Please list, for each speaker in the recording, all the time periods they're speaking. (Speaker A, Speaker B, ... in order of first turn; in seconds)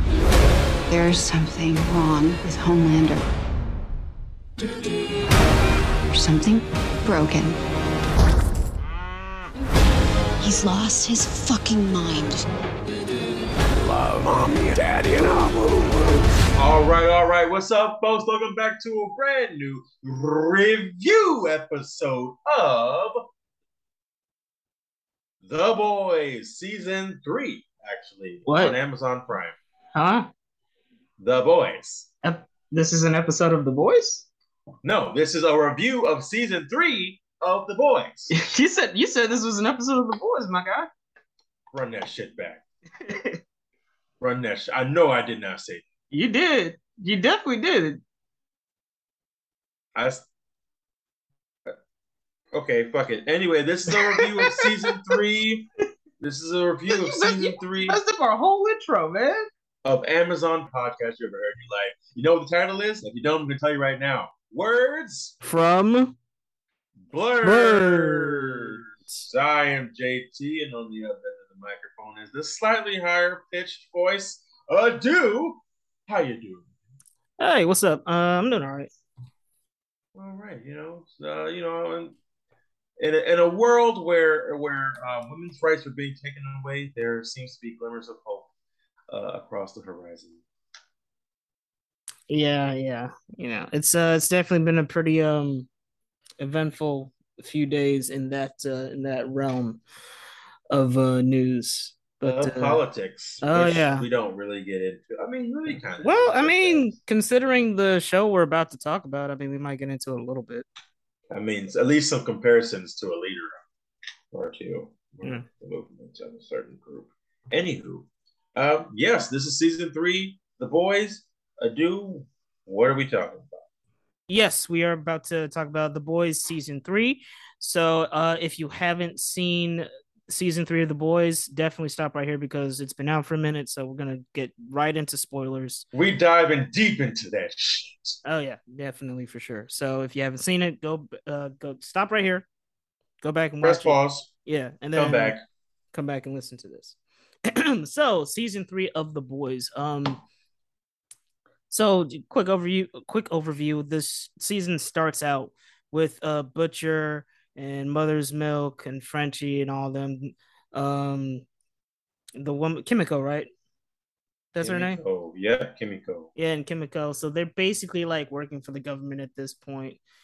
Speaker A: 0.9-3.2, 6.1-7.6, 10.4-12.4
Speaker B: 13.8-16.2
Speaker C: 16.6-23.2, 25.4-29.6, 31.2-32.1, 34.8-38.3, 41.7-42.6, 44.2-45.9, 50.0-50.2, 52.5-55.7, 56.2-58.0, 59.9-65.4, 67.1-76.7, 80.2-82.2, 83.0-88.5, 89.1-90.4, 102.2-106.9, 111.3-113.6, 114.3-123.6, 135.9-138.2, 143.6-144.3, 144.9-145.4, 164.6-166.3
Speaker D: 28.5-28.8, 29.9-30.3, 32.2-34.3, 38.3-40.9, 43.0-43.4, 46.1-48.0, 53.9-55.0, 56.9-59.5, 65.4-66.2, 67.4-69.2, 77.4-78.9, 92.3-95.7, 96.4-99.8, 100.7-102.8, 103.4-104.1, 106.0-110.7, 124.3-135.9, 138.2-142.5, 143.2-145.4, 145.9-150.2, 151.7-161.4, 162.4-163.5, 164.5-165.0, 166.4-170.0